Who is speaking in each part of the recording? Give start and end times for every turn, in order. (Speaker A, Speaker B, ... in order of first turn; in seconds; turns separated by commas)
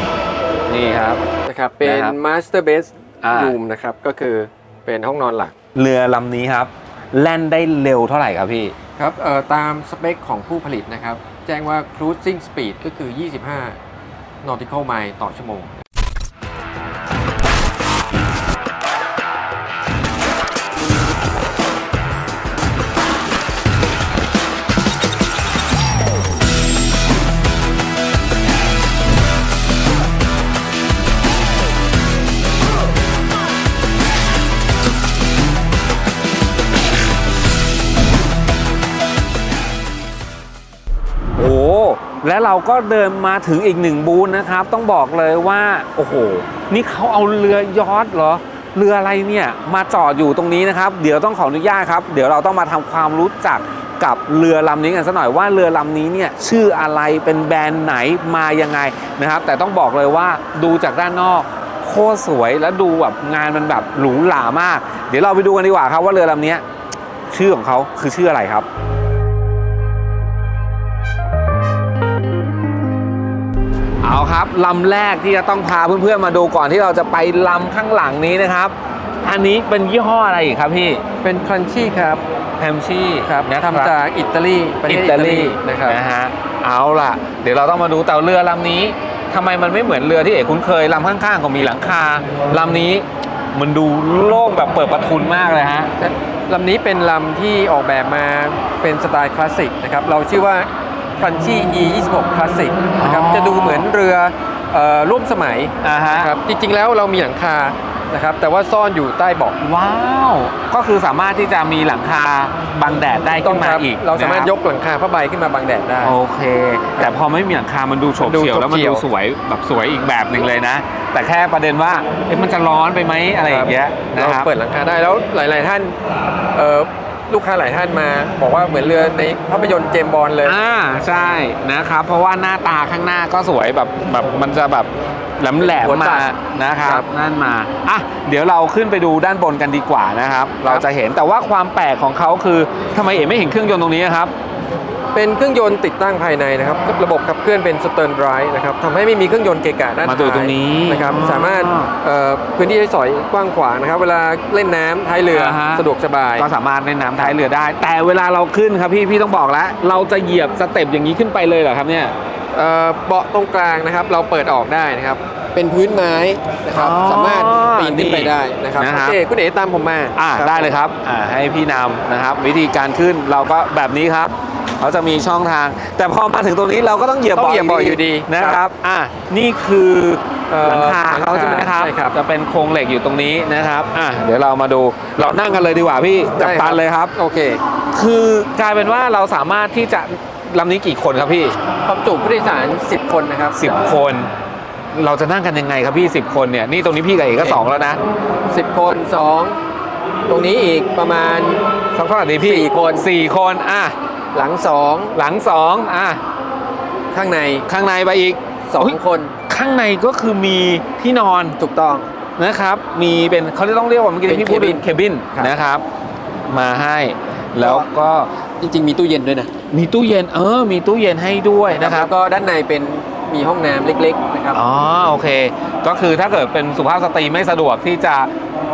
Speaker A: 0.7-1.2, Speaker B: 1.4-5.5, Speaker A: 1.8-2.2, Speaker A: 3.2-3.5, Speaker A: 5.7-8.7, Speaker B: 9.0-13.8, Speaker B: 14.4-15.7, Speaker A: 41.3-66.6, Speaker A: 67.3-68.7, Speaker A: 74.0-81.0, Speaker B: 81.2-82.2, Speaker A: 82.6-83.9, Speaker B: 83.2-86.0, Speaker A: 84.9-95.9, Speaker B: 96.0-109.6, Speaker A: 103.0-103.9, Speaker A: 105.8-106.3, Speaker A: 109.6-114.5, Speaker B: 113.4-116.2, Speaker A: 116.0-124.5, Speaker B: 118.2-119.1, Speaker B: 123.4-126.0, Speaker B: 126.5-130.6, Speaker A: 130.4-144.3, Speaker B: 135.7-136.3, Speaker B: 145.1-156.5, Speaker A: 150.0-151.9, Speaker A: 155.3-155.8, Speaker A: 156.4-162.1, Speaker B: 162.5-170.8, Speaker A: 166.7-169.2, Speaker A: 170.2-187.1, Speaker B: 177.3-178.6, Speaker B: 180.5-182.1, Speaker B: 186.4-187.6, Speaker A: 187.9-191.6, Speaker B: 191.8-193.7, Speaker A: 193.5-194.3, Speaker A: 194.9-198.0, Speaker B: 197.4-197.6, Speaker B: 198.5-199.6, Speaker B: 200.3-201.6, Speaker A: 201.9-204.0, Speaker B: 202.4-203.0, Speaker B: 204.3-205.2, Speaker A: 205.1-206.2, Speaker B: 207.1-207.7, Speaker A: 207.7-211.6, Speaker B: 208.7-209.3, Speaker B: 211.6-212.1, Speaker A: 212.4-215.8, Speaker B: 214.2-215.5, Speaker A: 216.5-218.3, Speaker B: 217.6-217.9, Speaker B: 218.6-219.5, Speaker A: 219.7-222.1, Speaker B: 221.7-224.6, Speaker A: 224.5-228.3